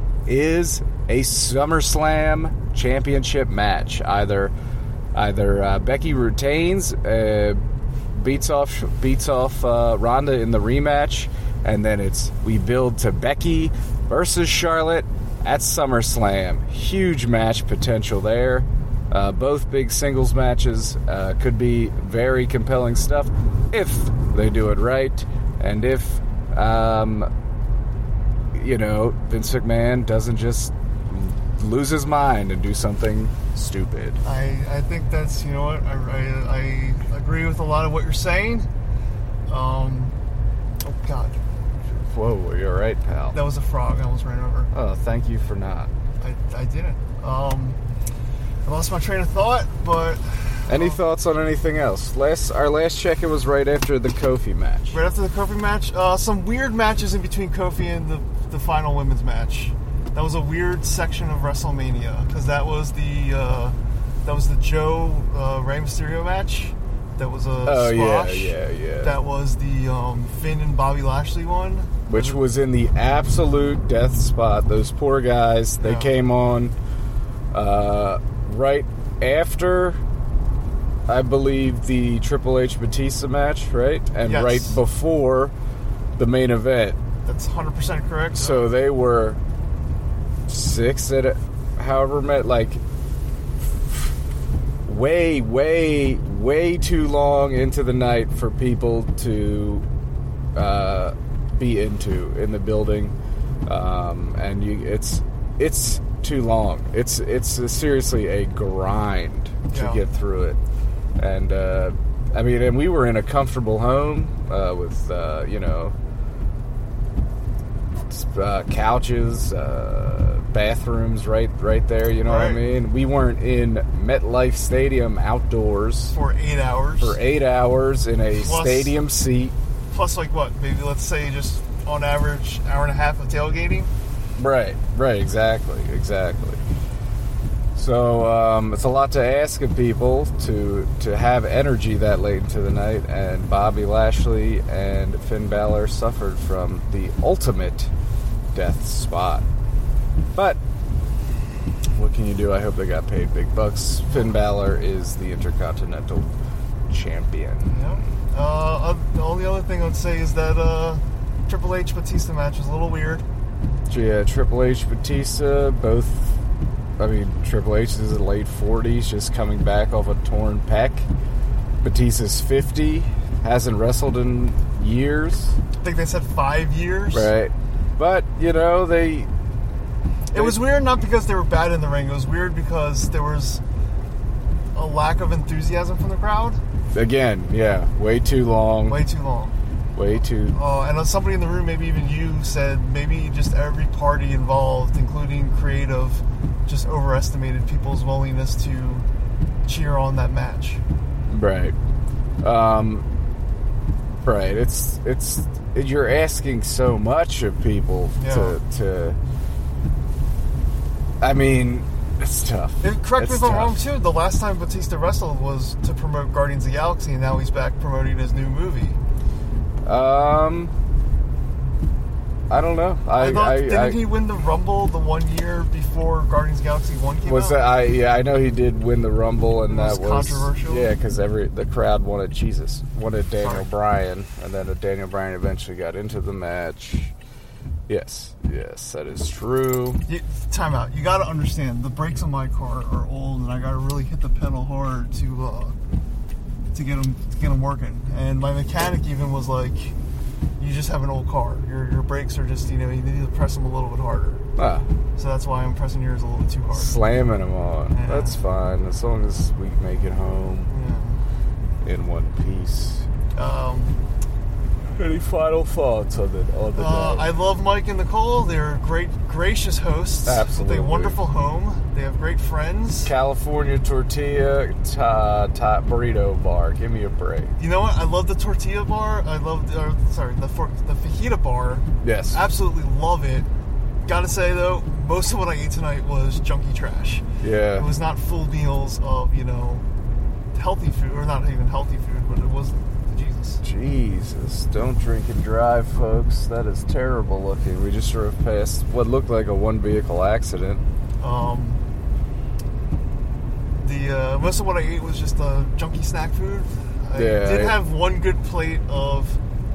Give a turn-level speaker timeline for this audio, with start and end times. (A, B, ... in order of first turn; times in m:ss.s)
0:00.2-0:04.5 A
0:05.1-0:07.6 A
0:08.1-0:27.3 A
0:28.5-0:34.2 A
0:34.2-0:38.7 B
0:39.5-0:40.1 B
0:40.8-0:41.4 B
0:41.8-0:43.4 A
0:43.3-0:44.7 B
0:44.7-0:45.9 A
0:46.2-0:47.8 B
0:48.6-0:51.0 B
0:50.7-0:55.0 A
0:54.9-1:12.4 B
1:07.6-1:09.2 A
1:12.1-1:16.7 A
1:15.8-1:16.1 B
1:17.5-1:20.0 A
1:21.1-1:25.5 A
1:24.2-1:24.8 B
1:26.2-1:27.0 A
1:27.2-1:28.6 B
1:28.3-1:29.4 A
1:30.5-1:32.8 A
1:33.6-1:34.1 A
1:34.8-1:39.8 A
1:40.5-1:43.1 A
1:43.6-1:50.6 A
1:49.7-1:50.0 B
1:51.2-1:55.9 A
1:58.1-2:06.2 A
2:02.2-2:02.6 B
2:06.1-2:07.1 B
2:07.0-2:09.5 A
2:08.3-2:08.9 B
2:09.9-2:13.9 B
2:14.4-2:16.6 A
2:17.7-2:27.9 A
2:28.5-2:29.4 A
2:30.3-2:30.6 A
2:31.9-2:36.3 A
2:36.9-2:38.0 A
2:37.7-2:43.2 B
2:43.9-2:46.4 A
2:47.0-2:51.1 A
2:51.8-2:55.6 A
2:55.8-2:57.3 B
2:57.1-2:59.3 A
3:00.3-3:03.6 B
3:00.3-3:00.6 A
3:04.7-3:06.6 B
3:06.9-3:09.0 A
3:08.8-3:09.5 B
3:09.9-3:10.6 A
3:10.5-3:19.0 B
3:19.6-3:20.8 B
3:21.3-3:21.8 A
3:22.4-3:23.0 A
3:24.2-3:29.2 A
3:28.2-3:28.6 B
3:31.2-3:33.8 A
3:32.8-3:39.0 B
3:39.8-3:40.7 A
3:42.5-3:44.0 A
3:43.2-3:47.6 B
3:47.2-3:57.1 A
3:49.7-3:50.9 B
3:53.4-3:53.6 B
3:57.9-4:00.0 A
4:00.0-4:05.8 B
4:06.7-4:09.9 B
4:10.6-4:14.4 B
4:14.6-4:14.8 A
4:15.2-4:16.9 B
4:16.7-4:20.7 A
4:17.9-4:18.4 B
4:20.7-4:21.2 B
4:21.8-4:23.0 A
4:23.3-4:24.0 B
4:24.9-4:27.3 A
4:26.8-4:33.1 B
4:30.2-4:31.2 A
4:33.0-4:37.5 A
4:37.6-4:43.5 B
4:42.0-4:42.4 A
4:44.0-4:47.2 B
4:47.4-4:47.9 A
4:47.8-4:49.8 B
4:50.5-4:53.6 B
4:53.6-5:00.8 A
5:01.2-5:01.8 B
5:03.8-5:09.4 B
5:07.1-5:07.8 A